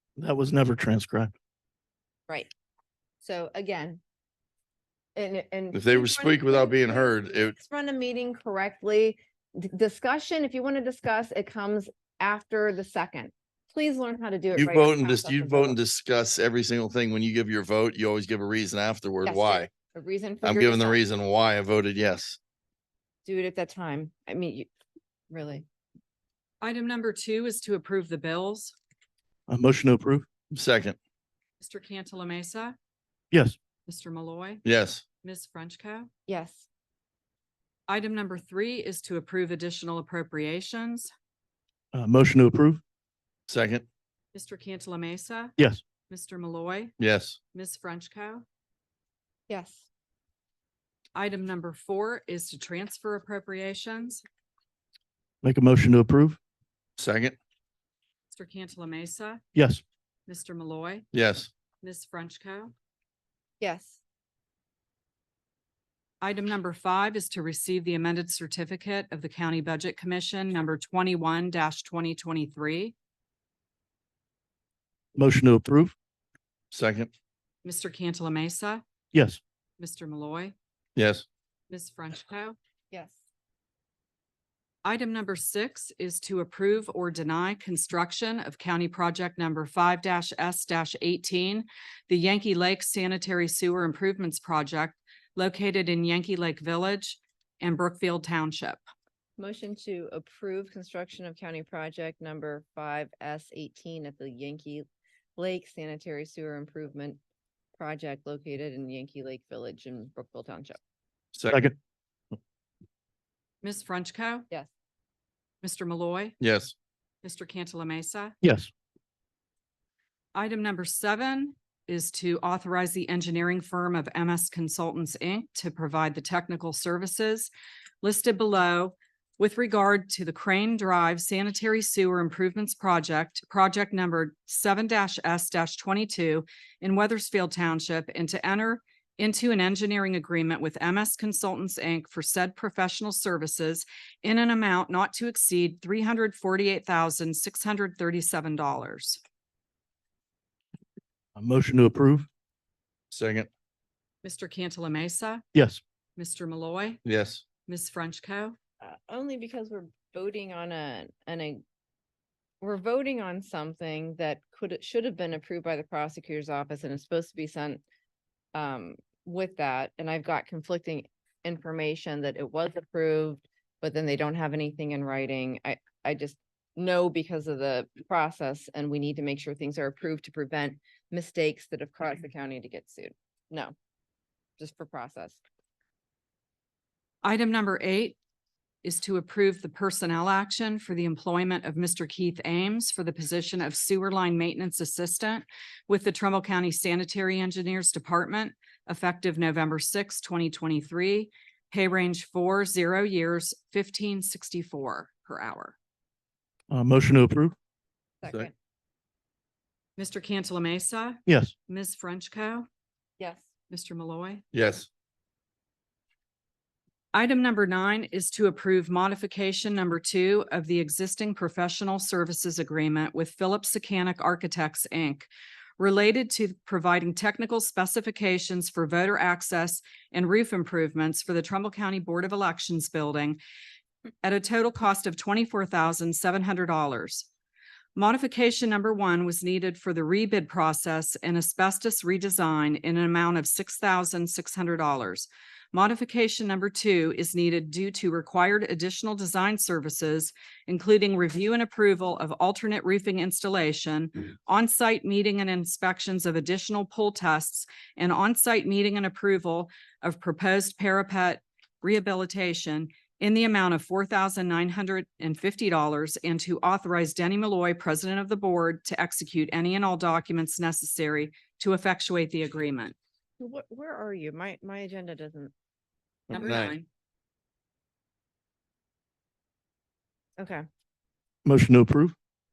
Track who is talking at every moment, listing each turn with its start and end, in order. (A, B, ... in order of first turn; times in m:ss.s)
0:00.2-0:01.3 A
0:03.2-0:04.0 B
0:05.2-0:15.8 B
0:05.7-0:07.6 C
0:14.6-0:19.7 C
0:19.2-0:21.0 B
0:20.4-0:22.4 C
0:23.2-0:24.7 B
0:25.3-0:25.6 B
0:26.6-0:28.8 D
0:29.5-0:30.3 A
0:30.5-0:31.0 C
0:31.6-0:32.8 D
0:33.9-0:34.6 D
0:34.6-0:35.0 C
0:35.2-0:36.1 D
0:36.3-0:36.6 B
0:37.9-0:41.1 D
0:41.9-0:42.8 A
0:43.5-0:43.9 C
0:44.3-0:45.6 D
0:46.1-0:46.9 D
0:47.0-0:47.4 C
0:47.5-0:48.4 D
0:49.5-0:49.8 B
0:51.2-0:54.2 D
0:55.4-0:56.4 A
0:57.0-0:57.4 C
0:58.3-0:59.4 D
0:59.6-0:59.8 A
1:00.3-1:01.1 D
1:01.1-1:01.5 C
1:01.8-1:02.7 D
1:03.6-1:04.0 B
1:06.2-1:12.9 D
1:15.2-1:16.0 A
1:16.7-1:17.1 C
1:17.6-1:18.8 D
1:19.1-1:19.4 A
1:19.8-1:20.5 D
1:21.0-1:21.3 C
1:21.7-1:22.6 D
1:24.8-1:38.8 D
1:39.4-1:47.2 B
1:47.8-1:50.8 B
1:51.3-1:51.7 C
1:53.6-1:54.5 D
1:55.6-1:56.4 D
1:56.4-1:56.7 C
1:57.2-1:58.4 D
1:58.4-1:58.7 A
2:00.4-2:07.5 D
2:08.0-2:29.2 D
2:31.4-2:32.3 A
2:33.1-2:33.5 C
2:34.2-2:35.4 D
2:35.6-2:35.8 A
2:36.2-2:37.0 D
2:37.0-2:37.4 C
2:37.7-2:38.6 D
2:38.8-2:41.6 B
2:42.6-2:47.8 B
2:48.5-3:03.7 B
3:04.6-3:05.4 B
3:07.2-3:08.2 D
3:08.8-3:25.8 D
3:26.7-3:27.6 A
3:28.2-3:28.5 B
3:30.0-3:32.7 D
3:31.3-3:31.5 A
3:33.2-3:33.4 B
3:33.7-3:34.4 D
3:34.5-3:34.9 C
3:37.1-3:45.3 D
3:45.8-3:53.4 D
3:54.2-3:57.3 D
3:58.0-4:33.0 D
4:33.4-4:35.5 B
4:36.3-4:36.7 C
4:36.3-4:36.9 D
4:40.4-4:40.6 B
4:41.4-4:42.2 A